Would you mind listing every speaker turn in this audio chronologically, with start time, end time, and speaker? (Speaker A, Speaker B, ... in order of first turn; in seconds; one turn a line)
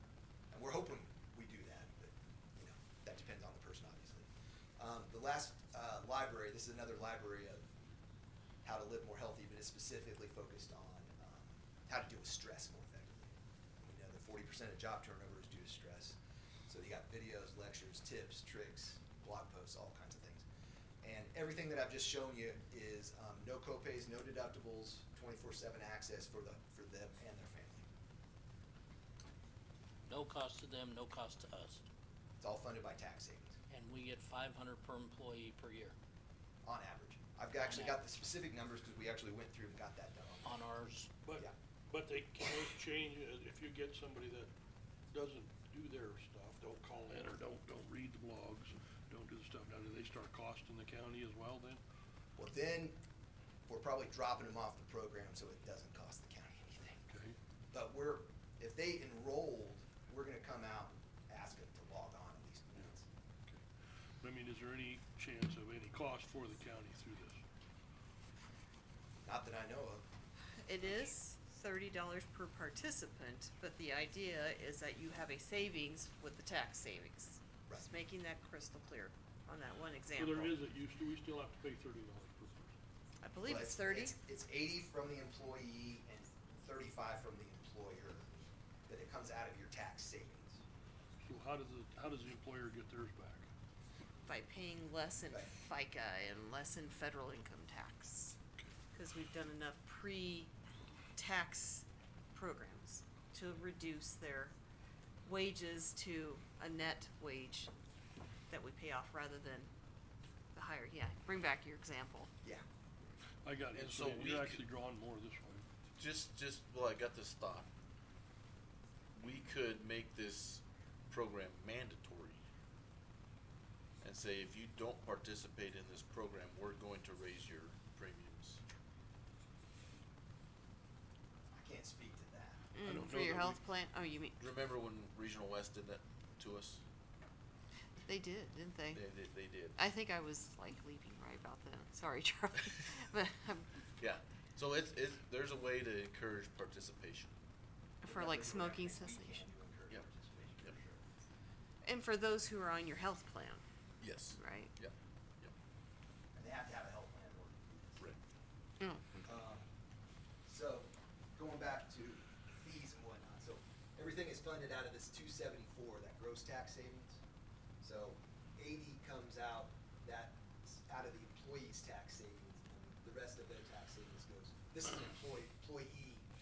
Speaker A: 0.5-4.3
Speaker A: 4.8-7.8
Speaker A: 8.6-20.4
Speaker A: 21.0-27.8
Speaker B: 30.1-31.8
Speaker A: 32.4-33.6
Speaker B: 33.7-35.9
Speaker A: 36.6-40.5
Speaker B: 37.6-38.0
Speaker B: 40.4-41.1
Speaker C: 41.2-44.5
Speaker C: 45.1-51.8
Speaker A: 52.4-53.0
Speaker A: 53.7-57.0
Speaker C: 57.1-57.4
Speaker A: 57.7-63.1
Speaker C: 64.2-67.4
Speaker A: 69.2-70.0
Speaker D: 70.6-80.5
Speaker C: 80.2-82.7
Speaker D: 83.2-84.1
Speaker A: 83.5-90.6
Speaker C: 91.2-93.5
Speaker D: 94.2-98.4
Speaker D: 98.9-100.5
Speaker D: 101.2-104.5
Speaker D: 105.2-107.7
Speaker D: 108.5-109.7
Speaker D: 110.5-112.3
Speaker C: 113.4-115.6
Speaker E: 113.7-114.6
Speaker E: 116.0-117.7
Speaker E: 119.1-122.4
Speaker E: 124.0-128.6
Speaker A: 131.5-132.6
Speaker D: 132.7-134.4
Speaker C: 132.8-133.6
Speaker E: 132.9-133.6
Speaker E: 134.4-136.8
Speaker D: 138.1-139.0
Speaker E: 138.9-139.8
Speaker D: 139.7-143.7
Speaker E: 144.0-147.3
Speaker D: 148.0-149.5
Speaker A: 148.0-151.0
Speaker D: 151.8-153.6
Speaker E: 154.0-155.5
Speaker D: 154.3-154.7
Speaker A: 156.3-158.1
Speaker D: 158.8-159.3
Speaker A: 159.2-159.7
Speaker A: 160.4-167.2
Speaker A: 167.8-176.2